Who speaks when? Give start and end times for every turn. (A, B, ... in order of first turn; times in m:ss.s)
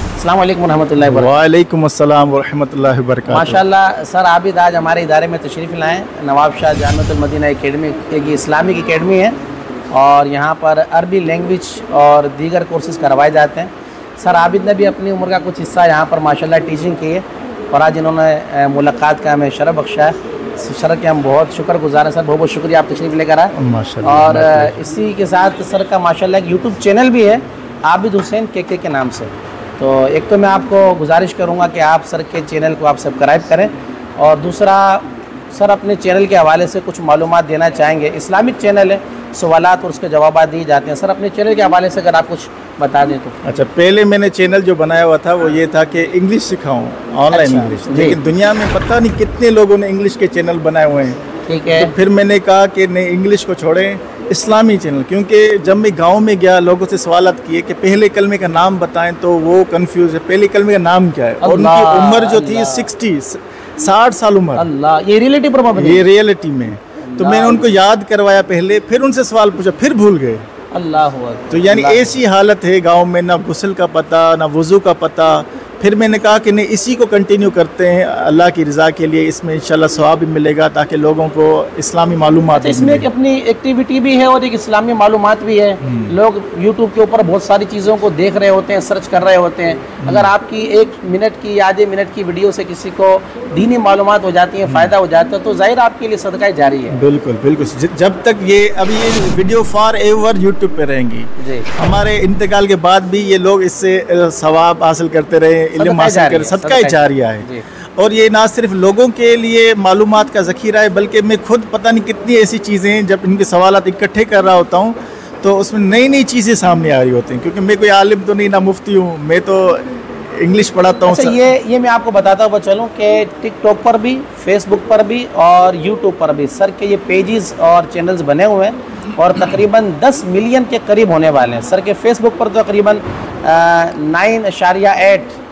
0:00.2-0:01.3 A
0:01.0-0:03.6 B
0:03.3-0:09.4 A
0:09.9-0:43.4 A
0:23.5-0:24.8 B
0:43.4-0:51.2 B
0:47.3-0:48.2 A
0:51.5-0:51.9 A
0:51.7-1:04.7 B
1:01.4-1:02.9 A
1:04.6-1:06.0 A
1:05.7-1:10.4 B
1:07.0-1:07.7 A
1:10.7-1:12.2 A
1:11.5-1:23.1 B
1:22.5-1:37.0 A
1:25.8-1:26.1 B
1:30.0-1:30.3 B
1:34.6-1:34.9 B
1:36.9-2:01.4 B
1:41.4-1:41.7 A
1:45.8-1:47.6 A
2:01.0-2:15.4 A